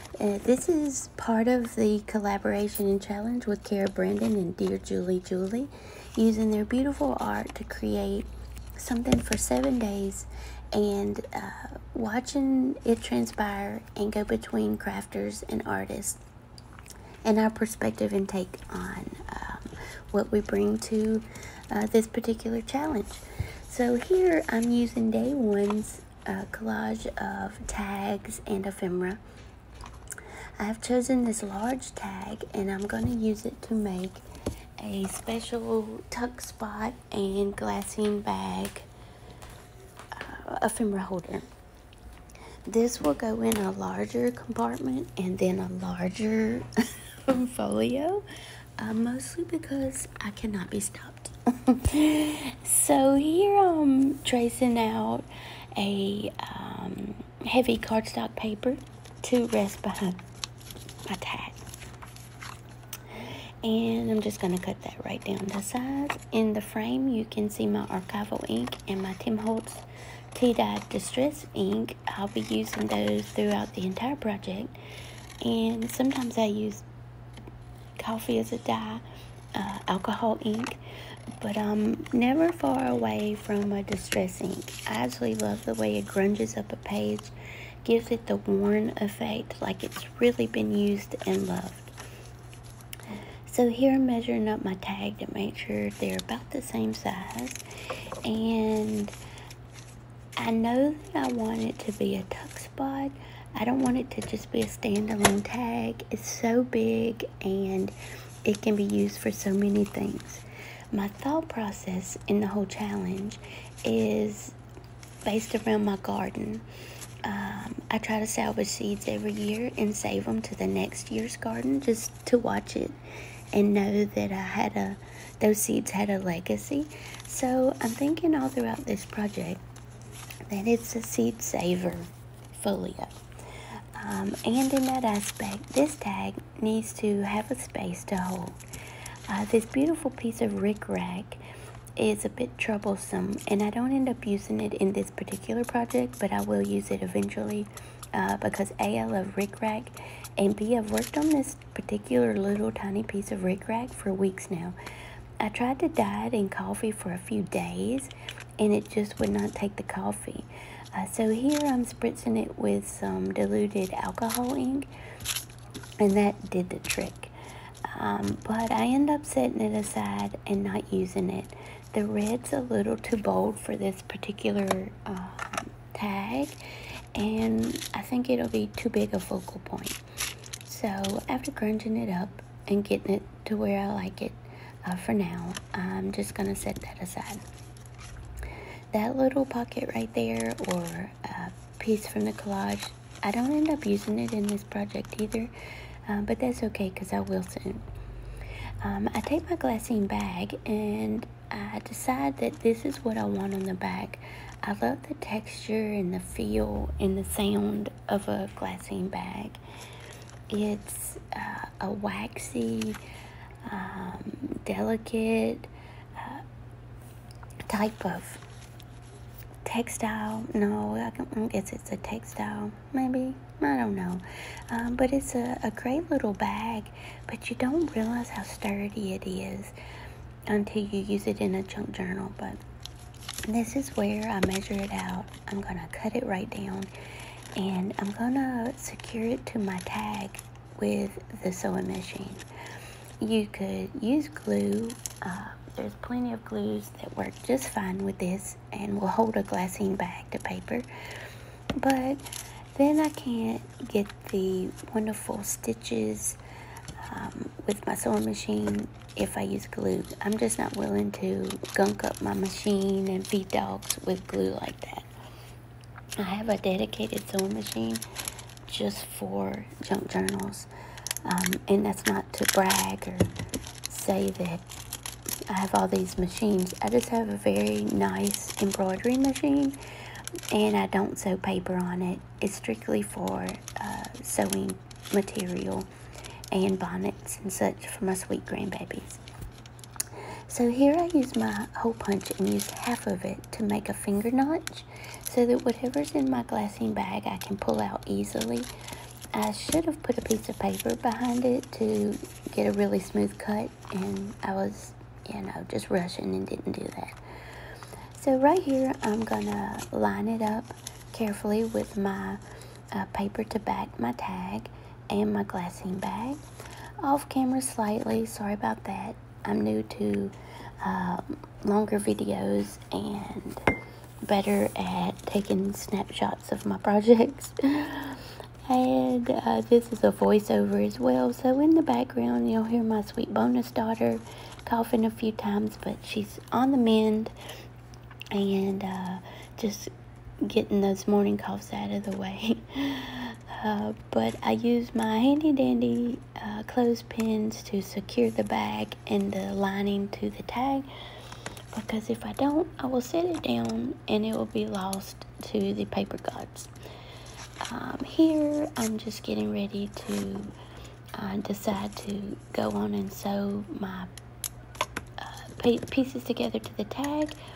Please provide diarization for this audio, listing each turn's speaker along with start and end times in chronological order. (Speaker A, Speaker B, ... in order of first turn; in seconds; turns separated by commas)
Speaker A: 0.2-16.2, Speaker A: 17.2-29.2, Speaker A: 30.6-34.2, Speaker A: 34.8-38.9, Speaker A: 40.1-41.5, Speaker A: 42.7-46.7, Speaker A: 47.3-48.2, Speaker A: 48.8-60.2, Speaker A: 61.1-61.6, Speaker A: 63.1-74.8, Speaker A: 75.4-76.8, Speaker A: 78.0-80.8, Speaker A: 81.4-87.3, Speaker A: 87.8-91.9, Speaker A: 93.5-97.6, Speaker A: 98.2-99.1, Speaker A: 100.4-107.9, Speaker A: 108.5-114.6, Speaker A: 115.2-116.7, Speaker A: 117.2-123.0, Speaker A: 123.5-129.6, Speaker A: 130.5-133.1, Speaker A: 134.0-138.6, Speaker A: 139.3-141.4, Speaker A: 142.0-154.8, Speaker A: 155.4-164.9, Speaker A: 166.0-167.3, Speaker A: 167.9-176.6, Speaker A: 177.2-180.0, Speaker A: 180.6-187.4, Speaker A: 188.9-195.5, Speaker A: 196.1-197.8, Speaker A: 198.8-209.6, Speaker A: 210.5-213.0, Speaker A: 213.7-216.4, Speaker A: 217.7-218.4, Speaker A: 219.6-229.8, Speaker A: 230.5-232.6, Speaker A: 233.5-236.9, Speaker A: 237.6-242.4, Speaker A: 243.2-250.9, Speaker A: 251.8-252.2, Speaker A: 252.8-256.4, Speaker A: 257.1-265.1, Speaker A: 266.2-268.0, Speaker A: 268.7-270.7, Speaker A: 271.2-273.3, Speaker A: 273.9-274.6, Speaker A: 275.5-279.8, Speaker A: 280.5-285.9, Speaker A: 286.5-289.2, Speaker A: 290.5-298.7, Speaker A: 299.3-316.4, Speaker A: 317.0-323.6, Speaker A: 324.2-337.3, Speaker A: 338.3-339.9, Speaker A: 340.4-350.9, Speaker A: 351.7-356.7, Speaker A: 357.7-360.5, Speaker A: 361.1-364.1, Speaker A: 365.2-367.4